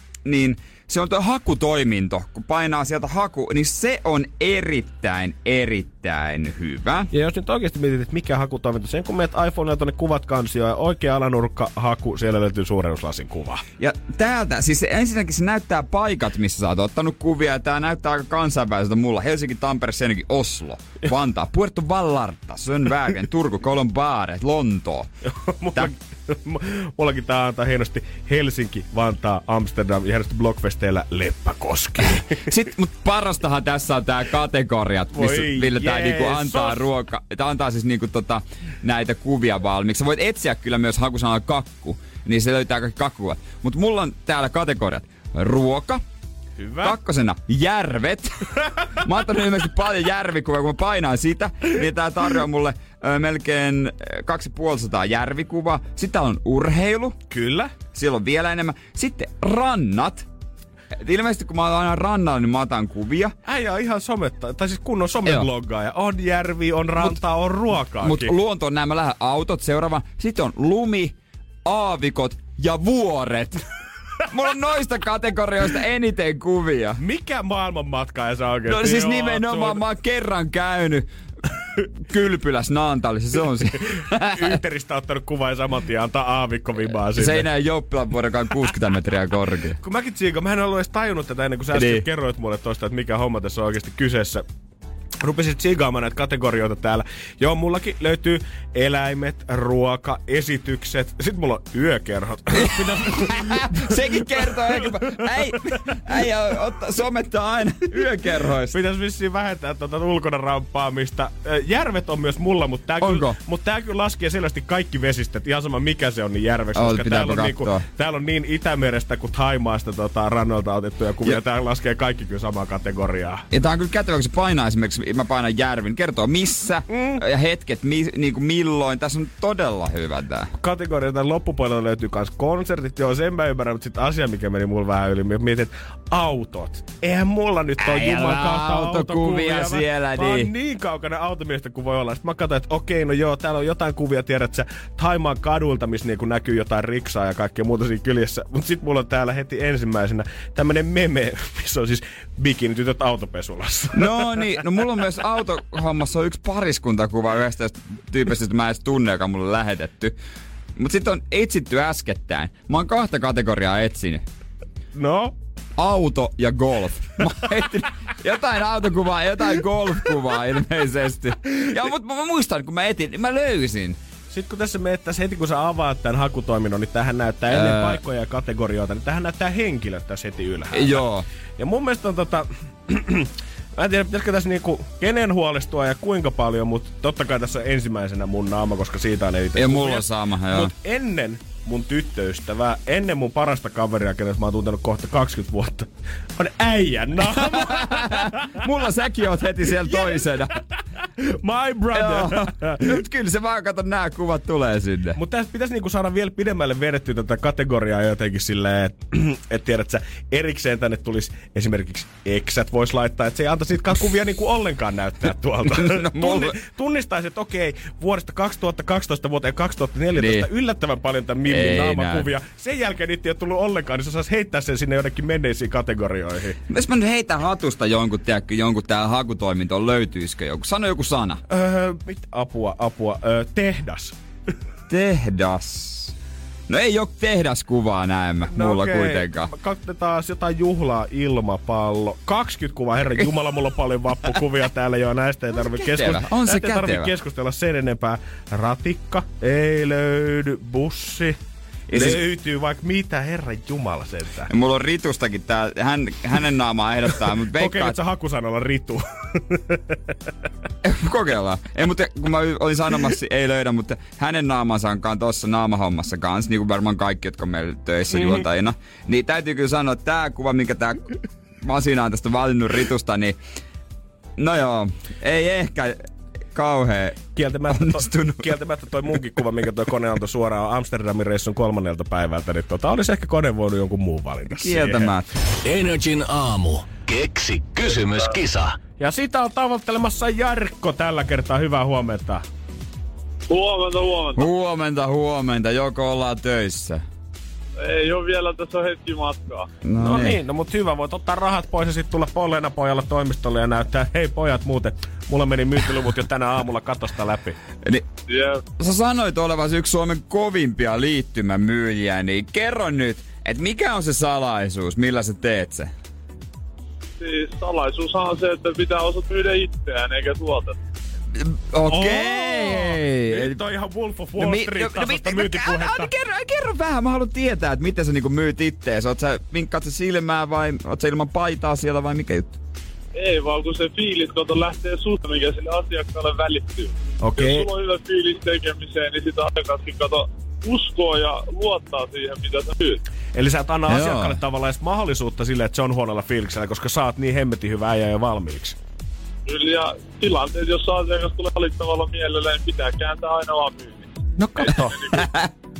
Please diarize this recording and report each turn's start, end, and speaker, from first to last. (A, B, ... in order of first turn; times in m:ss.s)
0:00.2-0:07.1 A
0:07.1-0:13.6 B
0:13.8-0:25.1 A
0:25.4-0:32.5 B
0:32.4-0:46.0 A
0:35.1-0:36.9 B
0:46.6-0:47.0 B
0:46.8-0:57.2 A
0:57.3-0:57.8 B
0:57.9-1:00.3 A
1:01.0-1:03.3 A
1:03.4-1:08.3 B
1:08.0-1:11.1 A
1:11.6-1:13.6 A
1:14.2-1:17.0 A
1:17.0-1:19.8 B
1:18.7-1:21.1 A
1:21.8-1:24.6 A
1:24.0-1:27.5 B
1:27.1-1:29.8 A
1:29.8-1:34.4 B
1:31.7-1:32.0 A
1:35.2-1:46.2 B
1:42.6-1:48.8 A
1:48.7-2:03.4 B
1:53.0-1:53.4 A
1:56.8-1:57.8 A
2:03.5-2:10.5 A
2:06.9-2:07.2 B
2:10.6-2:34.5 B
2:17.8-2:20.5 A
2:33.9-2:40.2 A
2:40.8-2:44.2 A
2:44.9-2:45.4 B
2:45.8-2:54.0 A
2:54.3-3:01.1 B
2:57.5-2:58.0 A
3:00.7-3:01.3 A
3:01.6-3:18.7 B
3:09.6-3:10.7 A
3:17.4-3:20.6 A
3:19.7-3:20.6 B
3:21.2-3:23.0 B
3:21.9-3:25.2 A
3:25.2-3:46.6 B
3:35.8-3:36.6 A
3:40.2-3:40.5 A
3:41.5-3:42.3 A
3:46.7-3:51.4 A
3:51.5-3:54.2 B
3:54.9-3:56.2 A
3:56.7-3:59.5 A
3:58.5-4:11.4 B
4:05.9-4:07.1 A
4:11.9-4:12.2 A
4:11.9-4:14.5 B
4:14.5-4:18.0 A
4:17.5-4:20.1 B
4:20.8-4:33.4 A
4:34.4-4:36.0 A
4:36.5-4:38.5 A
4:37.4-4:45.2 B
4:44.6-4:45.4 A
4:45.6-4:48.8 C
4:49.0-4:52.4 B
4:53.5-4:54.5 D
4:54.4-4:57.0 A
4:57.8-4:59.7 D
4:59.8-5:00.4 A
5:00.0-5:07.6 B
5:08.3-5:08.6 D
5:08.8-5:15.9 A
5:17.2-5:20.8 D
5:21.3-5:23.6 A
5:21.9-5:26.1 B
5:24.4-5:32.6 A
5:33.1-5:43.0 D
5:37.2-5:37.7 B
5:43.3-5:48.8 B
5:43.9-5:44.4 A
5:49.5-5:55.3 D
5:54.4-5:55.0 B
5:55.1-5:55.5 A